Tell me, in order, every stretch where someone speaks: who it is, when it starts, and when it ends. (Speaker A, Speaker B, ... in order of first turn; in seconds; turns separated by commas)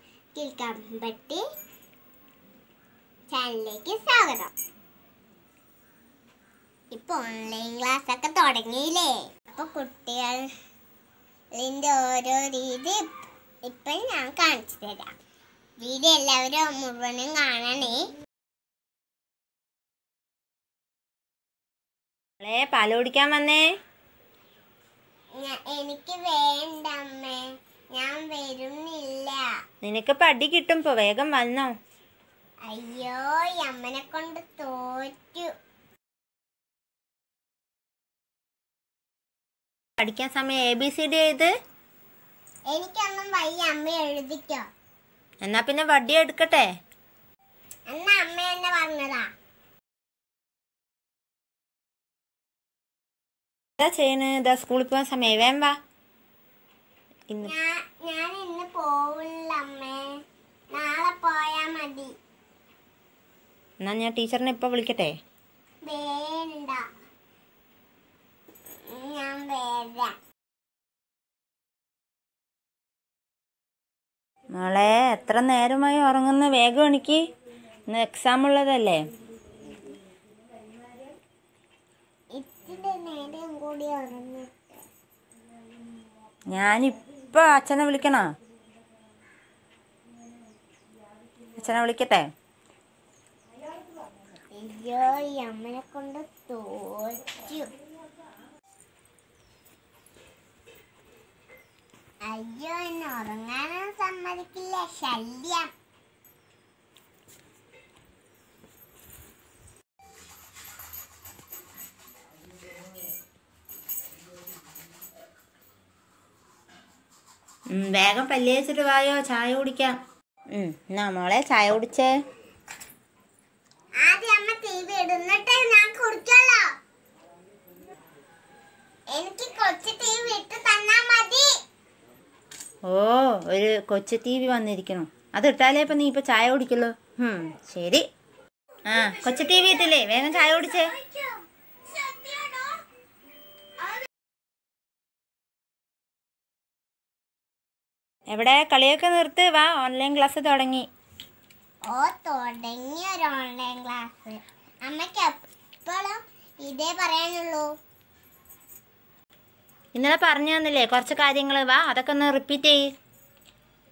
Speaker A: 0.3-1.4, Speaker A: 3.3-4.5, Speaker A: 6.9-10.4, Speaker A: 11.6-13.1, Speaker A: 13.7-15.1, Speaker A: 15.8-18.1, Speaker B: 22.4-23.7, Speaker A: 25.4-29.5, Speaker B: 29.8-31.7, Speaker A: 32.7-35.5, Speaker B: 40.0-41.5, Speaker A: 42.7-44.6, Speaker B: 45.4-46.7, Speaker A: 47.9-49.3, Speaker B: 53.8-55.8, Speaker A: 57.4-60.1, Speaker A: 60.7-62.1, Speaker B: 63.8-65.2, Speaker A: 65.8-66.8, Speaker A: 68.8-70.1, Speaker B: 74.5-77.2, Speaker B: 77.9-79.0, Speaker A: 82.3-84.8, Speaker B: 86.5-88.2, Speaker B: 91.5-92.3, Speaker A: 94.5-97.7, Speaker A: 102.2-105.7, Speaker B: 117.7-120.0, Speaker B: 120.5-122.1, Speaker A: 124.0-126.7, Speaker A: 129.1-131.5, Speaker B: 132.9-138.1, Speaker B: 138.9-140.9, Speaker A: 142.0-142.7, Speaker B: 148.3-150.9, Speaker A: 151.9-157.7, Speaker B: 159.9-162.9